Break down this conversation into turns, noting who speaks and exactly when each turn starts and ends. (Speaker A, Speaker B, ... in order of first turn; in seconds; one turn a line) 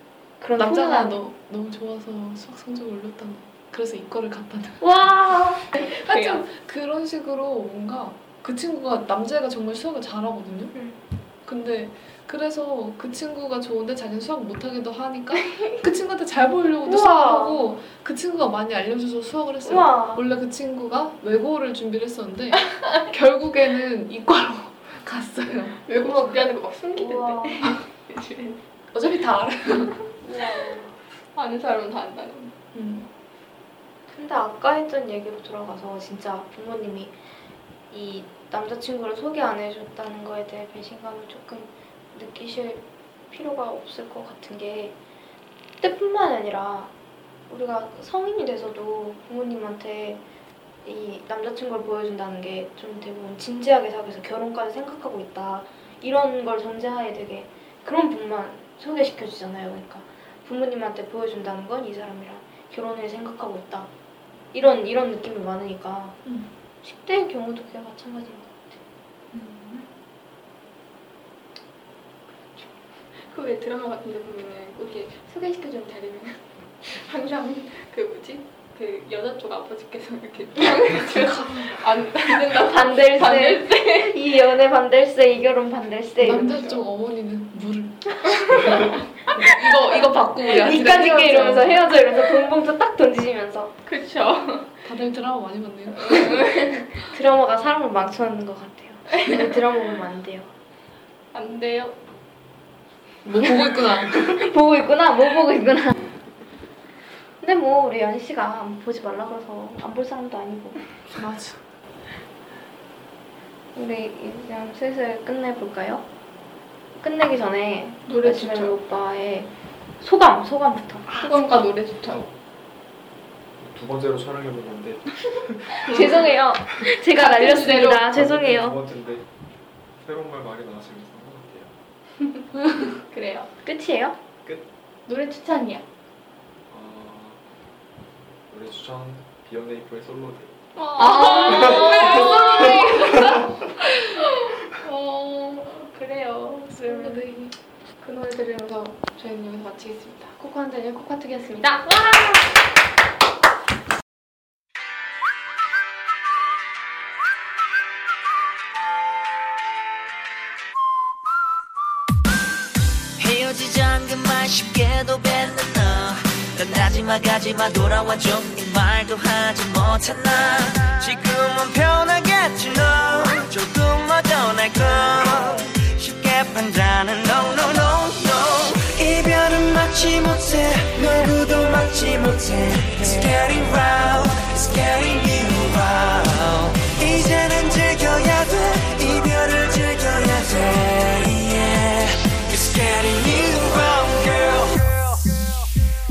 Speaker A: 0.4-1.2
Speaker B: 0.6-4.9
Speaker A: 4.8-5.7
Speaker C: 5.8-6.5
Speaker B: 5.8-10.7
Speaker B: 11.4-26.3
Speaker A: 16.9-17.7
Speaker A: 19.6-20.2
Speaker C: 25.9-28.6
Speaker A: 26.9-27.7
Speaker B: 28.9-30.1
Speaker A: 30.2-30.9
Speaker C: 31.3-32.5
Speaker B: 32.7-33.1
Speaker A: 34.1-37.1
Speaker A: 37.9-45.0
Speaker A: 45.8-46.9
Speaker A: 47.5-50.2
Speaker A: 50.8-63.9
Speaker A: 64.5-66.2
Speaker A: 66.8-68.8
Speaker C: 69.3-69.9
Speaker C: 73.3-84.2
Speaker B: 81.2-81.7
Speaker A: 82.5-86.8
Speaker B: 86.2-91.8
Speaker C: 88.3-89.4
Speaker A: 90.5-93.8
Speaker C: 93.9-94.7
Speaker B: 94.8-96.7
Speaker C: 96.0-96.9
Speaker A: 97.0-100.5
Speaker C: 99.2-99.4
Speaker C: 101.3-102.0
Speaker B: 103.2-104.4
Speaker A: 104.1-106.0
Speaker A: 107.4-110.8
Speaker B: 111.2-111.6
Speaker A: 113.7-116.1
Speaker A: 117.0-119.5
Speaker C: 118.1-118.8
Speaker A: 120.0-121.2
Speaker B: 121.1-121.7
Speaker C: 121.2-122.2
Speaker D: 123.6-125.9
Speaker A: 125.8-128.8
Speaker C: 125.9-126.3
Speaker C: 127.1-128.1
Speaker D: 128.1-129.2
Speaker D: 130.0-131.7
Speaker C: 133.1-133.5
Speaker A: 133.6-134.2
Speaker C: 135.1-135.8
Speaker D: 136.7-137.4
Speaker D: 138.5-140.6
Speaker B: 140.8-144.2
Speaker C: 140.8-147.2
Speaker A: 141.0-142.6
Speaker B: 146.7-147.5
Speaker C: 148.0-152.5
Speaker E: 163.2-195.2